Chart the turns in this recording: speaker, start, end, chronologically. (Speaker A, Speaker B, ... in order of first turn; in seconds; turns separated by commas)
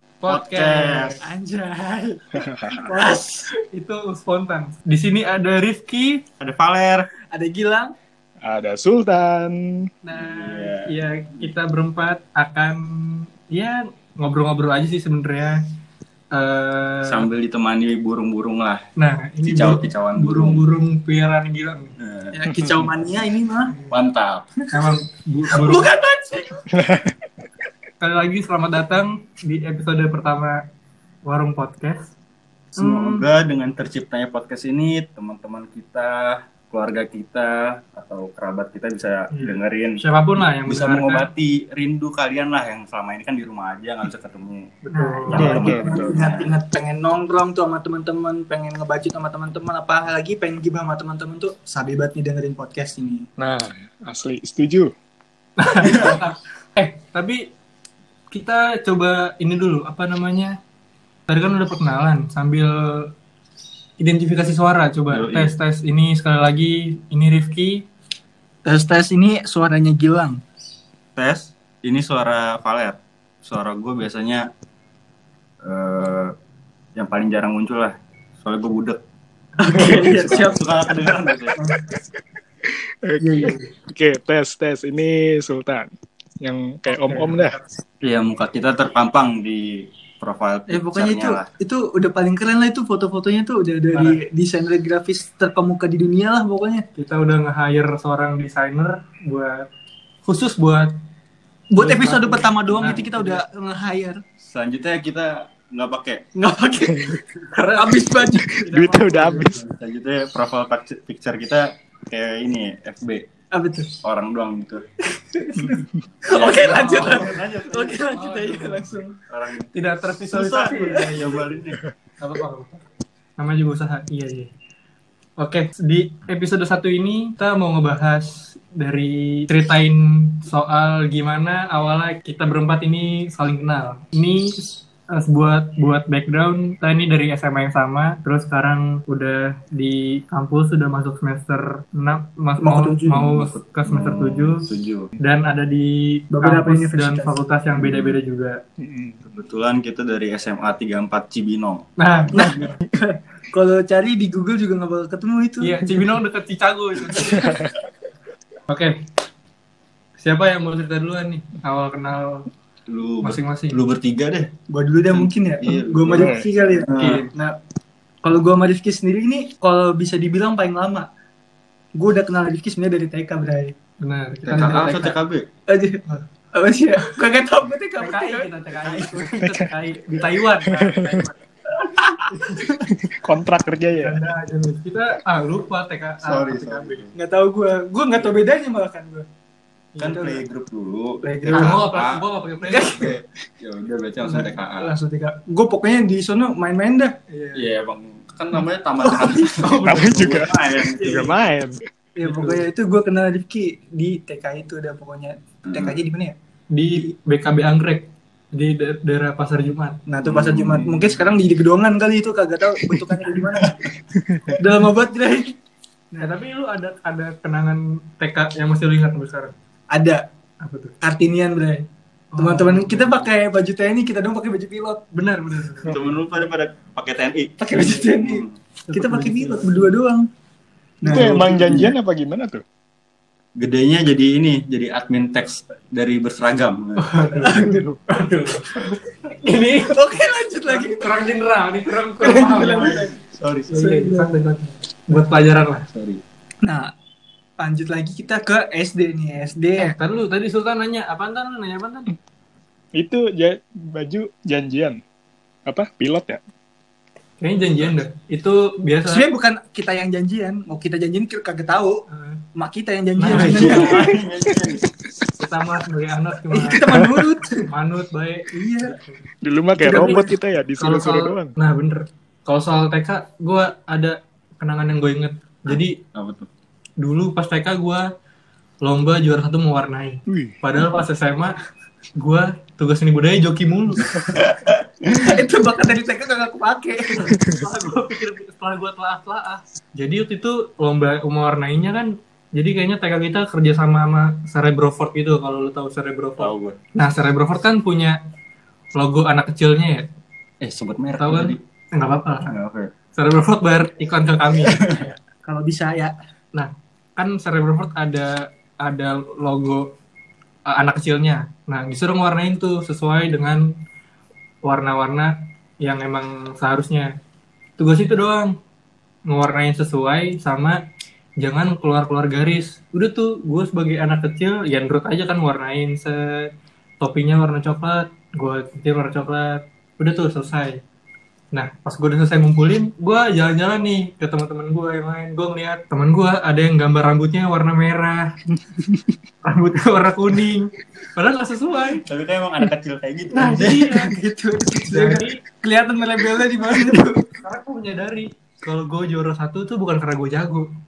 Speaker A: 0.2-1.2, Speaker B: 0.3-1.2, Speaker C: 1.2-3.5, Speaker D: 2.4-2.7, Speaker A: 3.7-6.2, Speaker B: 6.4-7.1, Speaker C: 7.3-7.9, Speaker D: 8.4-9.9, Speaker A: 10.1-15.6, Speaker B: 10.1-11.0, Speaker A: 16.3-17.2, Speaker B: 17.0-18.8, Speaker A: 19.0-21.9, Speaker B: 19.4-20.6, Speaker B: 22.0-22.4, Speaker C: 22.3-23.9, Speaker B: 23.9-24.5, Speaker A: 24.7-25.9, Speaker C: 25.5-26.6, Speaker D: 26.7-27.2, Speaker A: 28.0-30.6, Speaker A: 31.3-32.1, Speaker B: 32.8-40.0, Speaker A: 39.3-41.3, Speaker B: 40.7-44.8, Speaker A: 44.9-45.7, Speaker C: 45.0-53.3, Speaker B: 45.3-46.5, Speaker D: 45.4-46.2, Speaker D: 53.4-54.9, Speaker A: 55.6-57.4, Speaker B: 55.9-56.2, Speaker A: 58.3-60.6, Speaker A: 61.3-63.1, Speaker A: 64.0-67.9, Speaker B: 65.1-65.6, Speaker C: 68.7-70.4, Speaker B: 71.2-74.5, Speaker B: 75.6-76.3, Speaker B: 77.0-79.0, Speaker C: 79.6-80.7, Speaker B: 79.7-81.6, Speaker C: 81.6-81.8, Speaker D: 83.0-87.6, Speaker C: 83.2-83.7, Speaker B: 88.0-91.5, Speaker C: 90.7-96.8, Speaker A: 93.9-94.2, Speaker A: 97.0-99.7, Speaker A: 100.2-100.9, Speaker C: 101.7-104.2, Speaker A: 101.8-103.4, Speaker B: 102.8-103.1, Speaker B: 104.4-106.2, Speaker C: 106.4-108.7, Speaker A: 107.5-109.6, Speaker D: 108.5-109.6, Speaker B: 109.7-113.3, Speaker C: 113.5-113.9, Speaker B: 114.0-114.8, Speaker C: 115.3-119.2, Speaker B: 116.3-118.0, Speaker A: 116.5-117.4, Speaker A: 118.0-118.9, Speaker B: 119.3-119.7, Speaker A: 119.7-121.5, Speaker B: 120.3-121.8, Speaker C: 120.7-121.2, Speaker A: 122.2-122.8, Speaker A: 123.4-124.5, Speaker A: 125.4-144.7, Speaker C: 142.6-143.3, Speaker B: 143.2-145.1, Speaker A: 145.2-148.6, Speaker C: 146.3-147.4, Speaker B: 147.7-148.2, Speaker D: 148.8-149.2, Speaker B: 149.3-151.9, Speaker A: 152.0-152.6, Speaker C: 152.3-155.8, Speaker A: 155.6-157.6, Speaker D: 157.2-157.7, Speaker A: 158.7-158.9, Speaker A: 160.2-162.5, Speaker B: 162.9-164.5, Speaker A: 163.2-163.8, Speaker C: 164.7-167.6, Speaker B: 165.1-167.3, Speaker D: 166.2-166.5, Speaker A: 167.0-167.3, Speaker C: 168.2-171.1, Speaker C: 171.9-173.7, Speaker A: 174.0-175.2, Speaker B: 174.5-175.5, Speaker C: 174.5-175.2, Speaker C: 175.7-176.0, Speaker C: 176.5-178.7, Speaker A: 178.0-181.1, Speaker B: 178.8-179.2, Speaker D: 179.3-179.7, Speaker D: 180.7-181.3, Speaker C: 181.8-182.8, Speaker A: 182.3-182.7, Speaker D: 182.9-184.2, Speaker A: 184.0-187.0, Speaker B: 186.2-187.2, Speaker C: 187.2-189.3, Speaker A: 189.9-190.3, Speaker B: 190.0-192.2, Speaker C: 190.0-190.4, Speaker C: 191.2-191.8, Speaker A: 191.5-193.1, Speaker C: 192.7-193.2, Speaker B: 192.9-194.9, Speaker C: 194.2-197.1, Speaker A: 197.3-197.7, Speaker B: 197.6-201.3, Speaker A: 199.5-200.2, Speaker D: 199.8-201.8, Speaker A: 201.0-201.3, Speaker C: 202.2-206.3, Speaker A: 202.2-202.7, Speaker B: 205.7-206.0, Speaker A: 206.7-210.0, Speaker C: 210.1-213.8, Speaker B: 210.2-211.3, Speaker B: 213.5-213.9, Speaker D: 214.2-214.6, Speaker C: 214.6-215.6, Speaker A: 216.2-219.5, Speaker C: 219.9-220.2, Speaker A: 220.6-220.9, Speaker C: 221.0-221.9, Speaker A: 222.3-223.3, Speaker C: 222.4-225.1, Speaker A: 225.1-226.1, Speaker B: 225.8-228.6, Speaker C: 227.6-230.3, Speaker A: 228.9-229.9, Speaker C: 231.0-231.9, Speaker D: 231.0-232.6, Speaker B: 231.1-231.9, Speaker B: 233.6-237.2, Speaker A: 237.0-240.0, Speaker C: 237.2-237.9, Speaker C: 239.9-241.1, Speaker A: 240.7-243.1, Speaker C: 242.2-243.1, Speaker B: 242.3-243.8, Speaker A: 243.7-245.9, Speaker C: 243.7-244.3, Speaker B: 245.9-246.2, Speaker C: 246.6-246.9, Speaker C: 247.6-249.9, Speaker A: 249.8-252.1, Speaker D: 253.0-255.0, Speaker D: 255.7-256.4, Speaker A: 257.4-259.3, Speaker C: 259.1-262.1, Speaker A: 262.1-262.4, Speaker C: 262.6-264.2, Speaker A: 263.2-264.1, Speaker B: 263.3-264.9, Speaker A: 265.4-266.9, Speaker C: 266.5-267.7, Speaker A: 267.7-269.2, Speaker C: 268.5-269.0, Speaker D: 269.4-271.5, Speaker C: 269.8-270.3, Speaker A: 269.9-270.2, Speaker A: 270.8-276.0, Speaker B: 275.7-276.5, Speaker A: 277.0-278.1, Speaker A: 278.8-281.6, Speaker D: 280.3-280.6, Speaker A: 282.2-284.2, Speaker B: 284.1-285.3, Speaker C: 284.7-287.3, Speaker A: 287.1-298.2, Speaker B: 296.4-296.8, Speaker A: 299.0-300.1, Speaker B: 300.6-301.6, Speaker A: 301.2-302.5, Speaker B: 302.4-302.9, Speaker A: 303.1-305.0, Speaker B: 304.7-305.1, Speaker C: 305.4-306.1, Speaker A: 306.6-309.9, Speaker A: 310.7-313.7, Speaker A: 314.6-317.1, Speaker A: 317.8-318.5, Speaker A: 319.3-320.8, Speaker A: 321.4-330.8, Speaker A: 331.5-338.3, Speaker D: 338.5-339.1, Speaker A: 339.4-342.1, Speaker B: 342.1-343.9, Speaker A: 343.3-344.1, Speaker C: 343.6-347.2, Speaker A: 344.9-345.4, Speaker A: 347.4-350.6